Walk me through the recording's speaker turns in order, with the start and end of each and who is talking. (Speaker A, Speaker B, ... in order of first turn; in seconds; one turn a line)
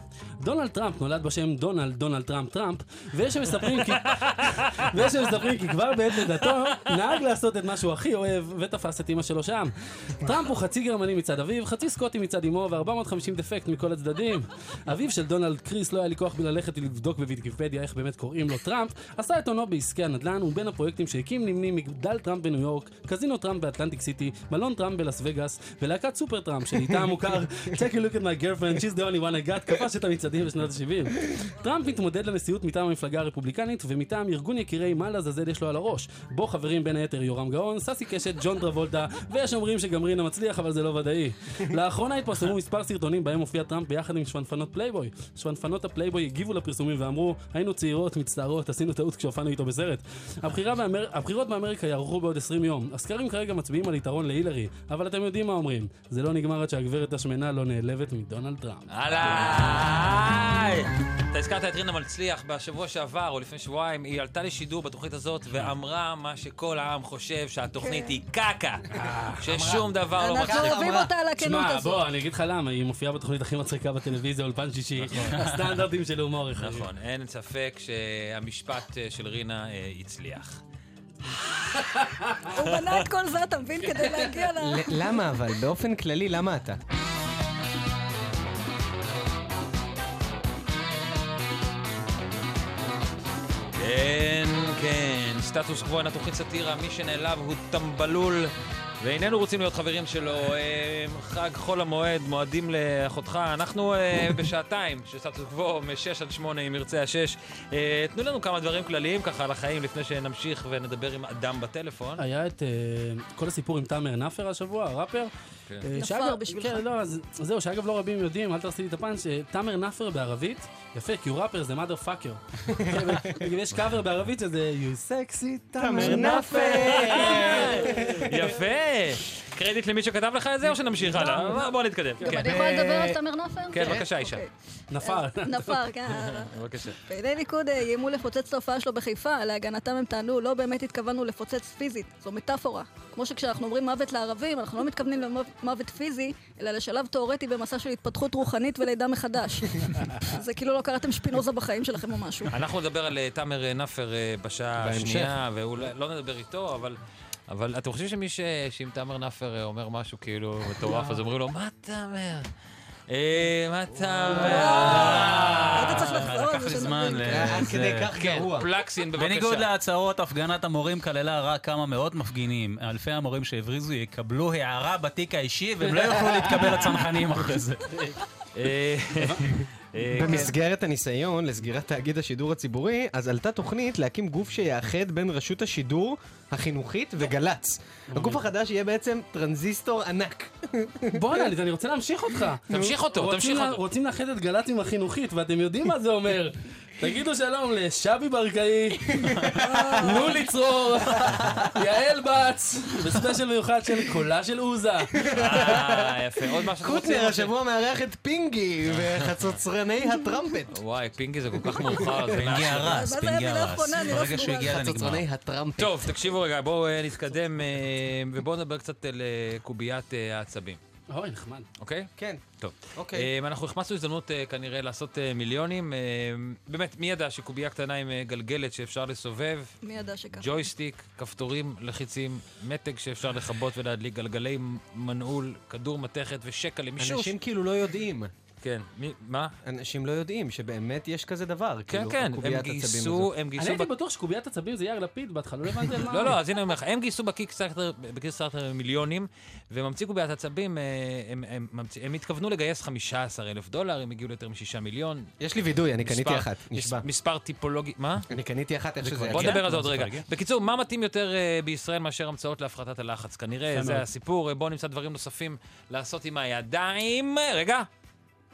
Speaker A: 0.4-59.3
Speaker B: 3.9-4.9
Speaker B: 58.9-68.9
Speaker C: 67.8-68.2
Speaker A: 69.0-69.4
Speaker B: 69.4-70.8
Speaker D: 69.5-71.1
Speaker C: 70.2-72.0
Speaker A: 71.4-76.9
Speaker E: 75.2-75.7
Speaker B: 76.6-80.6
Speaker B: 81.7-82.0
Speaker C: 82.5-85.2
Speaker B: 82.6-83.0
Speaker D: 84.6-86.8
Speaker B: 93.8-112.2
Speaker A: 112.2-115.3
Speaker A: 115.8-128.1
Speaker C: 115.9-116.8
Speaker D: 122.8-123.3
Speaker D: 125.8-128.5
Speaker B: 125.9-132.6
Speaker C: 132.2-152.5
Speaker D: 132.3-133.2
Speaker B: 133.7-134.4
Speaker A: 134.9-135.8
Speaker B: 136.2-137.0
Speaker B: 152.5-157.0
Speaker D: 154.8-155.3
Speaker B: 157.5-162.5
Speaker B: 163.1-166.3
Speaker C: 164.3-167.5
Speaker D: 164.6-165.4
Speaker E: 164.9-168.1
Speaker D: 167.3-168.7
Speaker B: 168.1-169.7
Speaker E: 169.2-178.0
Speaker B: 178.6-180.5
Speaker A: 179.2-179.6
Speaker D: 180.1-191.4
Speaker A: 188.1-188.4
Speaker A: 191.1-205.2
Speaker D: 192.7-193.0
Speaker B: 192.7-193.8
Speaker D: 199.2-200.0
Speaker C: 199.7-200.3
Speaker D: 205.1-210.8
Speaker B: 205.3-207.5
Speaker B: 209.0-209.4
Speaker B: 210.7-213.1
Speaker D: 211.6-212.4
Speaker E: 212.3-215.2
Speaker C: 212.8-214.9
Speaker D: 214.6-216.1
Speaker B: 215.8-220.8
Speaker A: 221.1-221.7
Speaker B: 221.8-229.8
Speaker D: 222.2-222.4
Speaker D: 222.9-223.3
Speaker C: 229.8-230.6
Speaker B: 230.3-237.3
Speaker D: 237.0-238.3
Speaker B: 238.6-239.5
Speaker D: 239.6-243.3
Speaker B: 241.9-243.9
Speaker A: 243.6-246.3
Speaker B: 246.0-255.3
Speaker D: 255.4-257.0
Speaker B: 256.0-258.3
Speaker D: 258.3-259.7
Speaker E: 259.0-260.2
Speaker B: 259.3-267.9
Speaker E: 263.7-264.0